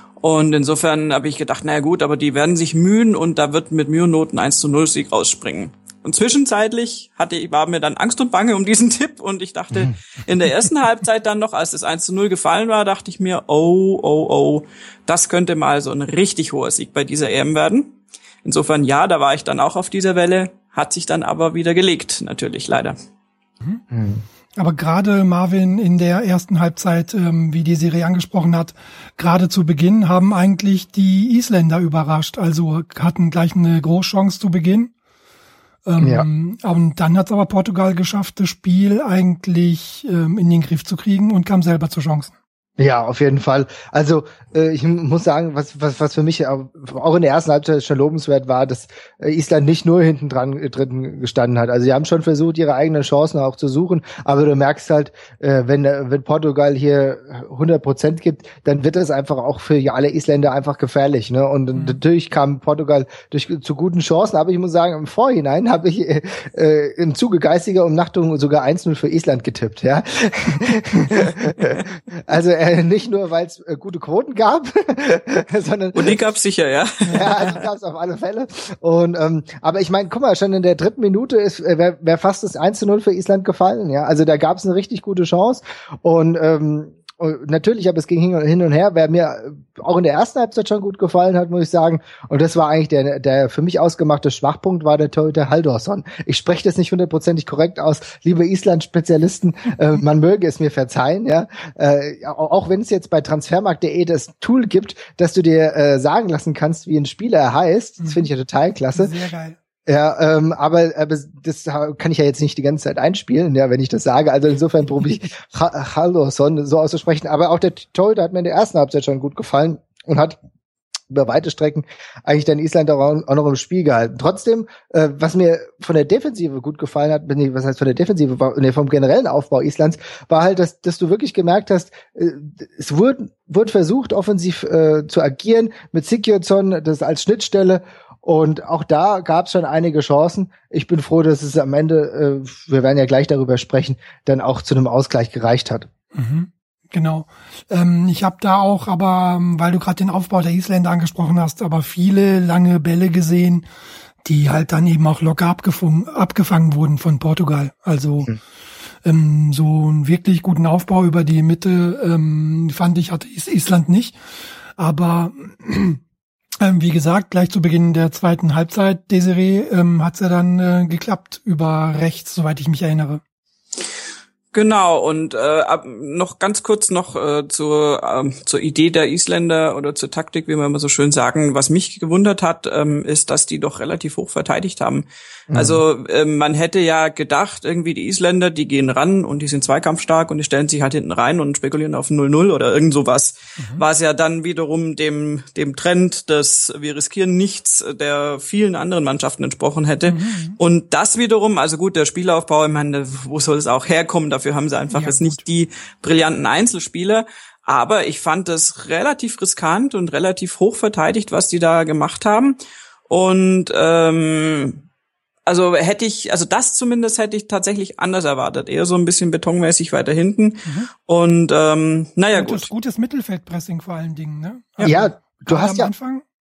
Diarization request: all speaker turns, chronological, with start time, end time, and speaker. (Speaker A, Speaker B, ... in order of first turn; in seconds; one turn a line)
Speaker A: 0.2-22.9
Speaker B: 23.9-24.2
Speaker C: 24.6-34.9
Speaker C: 35.9-42.3
Speaker B: 36.0-36.2
Speaker B: 42.8-76.2
Speaker C: 61.7-62.0
Speaker A: 75.9-77.4
Speaker C: 77.0-77.4
Speaker B: 77.1-109.1
Speaker C: 108.0-108.2
Speaker C: 108.9-109.6
Speaker B: 109.9-120.4
Speaker B: 121.1-145.9
Speaker C: 146.1-153.7
Speaker C: 154.2-158.3
Speaker C: 159.0-164.2
Speaker C: 164.8-166.0
Speaker C: 166.6-173.2
Speaker A: 174.5-212.6
Speaker B: 185.5-185.8
Speaker C: 200.1-200.6
Speaker C: 204.9-205.4
Speaker A: 213.1-214.8
Speaker A: 215.5-222.7
Speaker C: 220.6-220.9
Speaker C: 222.3-226.2
Speaker B: 224.8-225.9